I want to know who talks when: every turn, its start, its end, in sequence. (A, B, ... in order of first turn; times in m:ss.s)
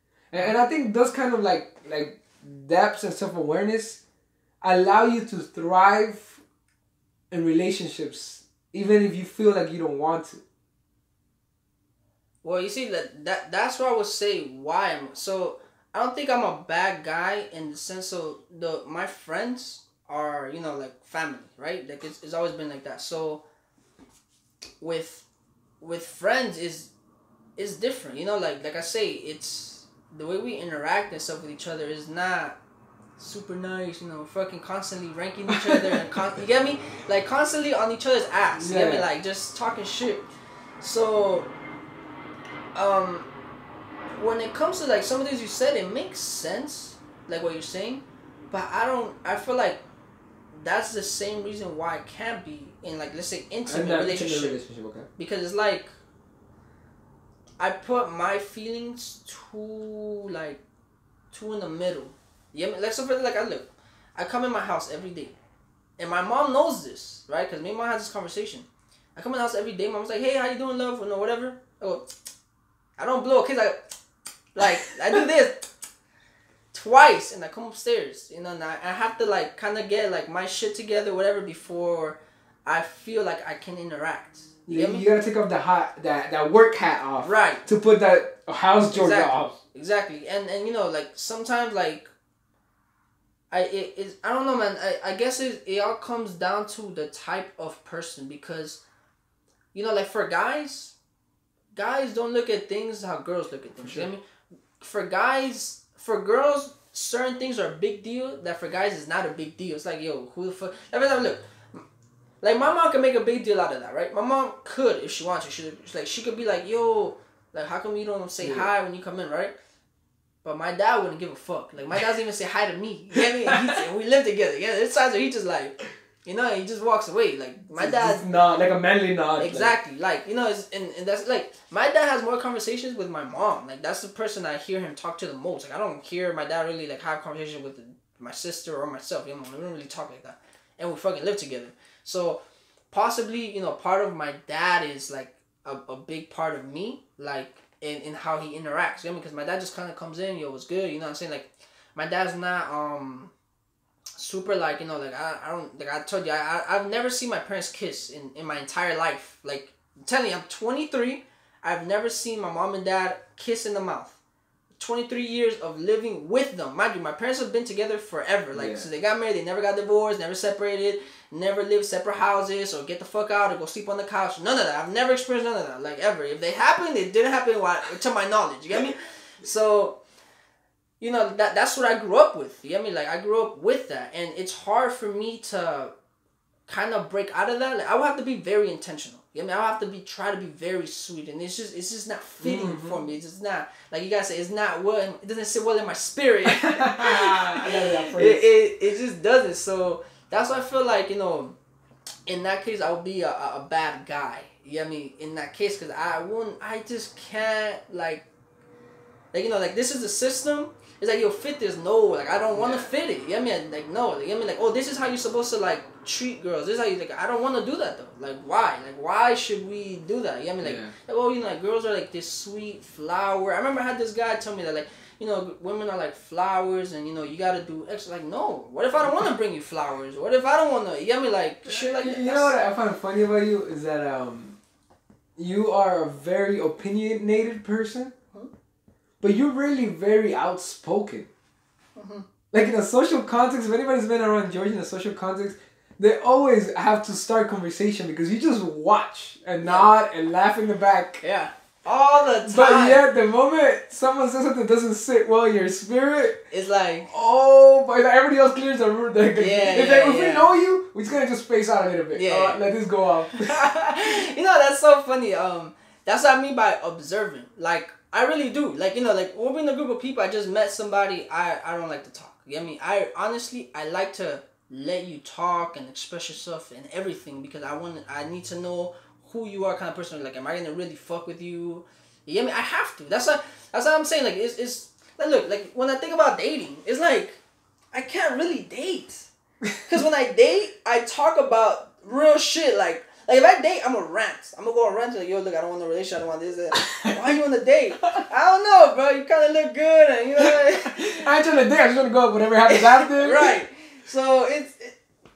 0:00.3-0:04.0 A
0:04.6-0:06.4 A
0:07.3-0:10.4 A
0:12.4-0:23.4 B
0:24.8-0:25.2 B
0:25.8-0:26.9 B
0:27.6-0:32.6 B
0:33.2-0:40.2 B
0:35.5-0:36.1 A
0:38.5-0:39.1 A
0:40.8-0:41.5 B
0:42.7-0:43.3 B
0:44.2-0:49.8 B
0:50.5-0:54.6 B
0:53.7-0:55.1 A
0:55.2-0:55.9 B
0:57.6-1:00.6 B
1:01.3-1:05.4 B
1:06.0-1:12.0 B
1:13.0-1:13.8 B
1:14.5-1:15.7 B
1:16.7-1:25.1 B
1:24.7-1:29.5 A
1:27.2-1:27.6 B
1:28.9-1:32.1 B
1:33.5-1:38.8 B
1:39.7-1:40.9 B
1:41.7-1:44.2 B
1:43.8-1:44.1 A
1:44.8-1:51.8 B
1:52.4-1:59.5 B
1:58.4-1:58.7 A
2:00.4-2:08.2 B
2:03.1-2:03.8 A
2:07.7-2:09.7 A
2:09.4-2:33.3 B
2:34.2-2:44.2 B
2:44.8-3:00.0 B
2:48.5-2:48.9 A
3:01.0-3:05.9 B
3:06.7-3:21.6 B
3:12.4-3:13.0 A
3:16.4-3:18.4 A
3:22.3-3:28.2 B
3:29.3-3:52.6 B
3:32.5-3:32.9 A
3:40.6-3:40.9 A
3:51.6-3:54.6 A
3:55.4-3:58.1 A
3:59.2-4:01.3 A
4:02.0-4:02.2 B
4:02.5-4:11.2 A
4:09.6-4:09.9 B
4:11.2-4:13.0 B
4:12.4-4:16.4 A
4:16.5-4:17.1 B
4:17.1-4:23.5 A
4:19.4-4:20.6 B
4:22.1-4:22.6 B
4:23.3-4:47.4 B
4:47.9-4:49.3 B
4:49.8-5:01.3 B
4:56.7-4:57.4 A
5:00.4-5:03.6 A
5:02.7-5:05.0 B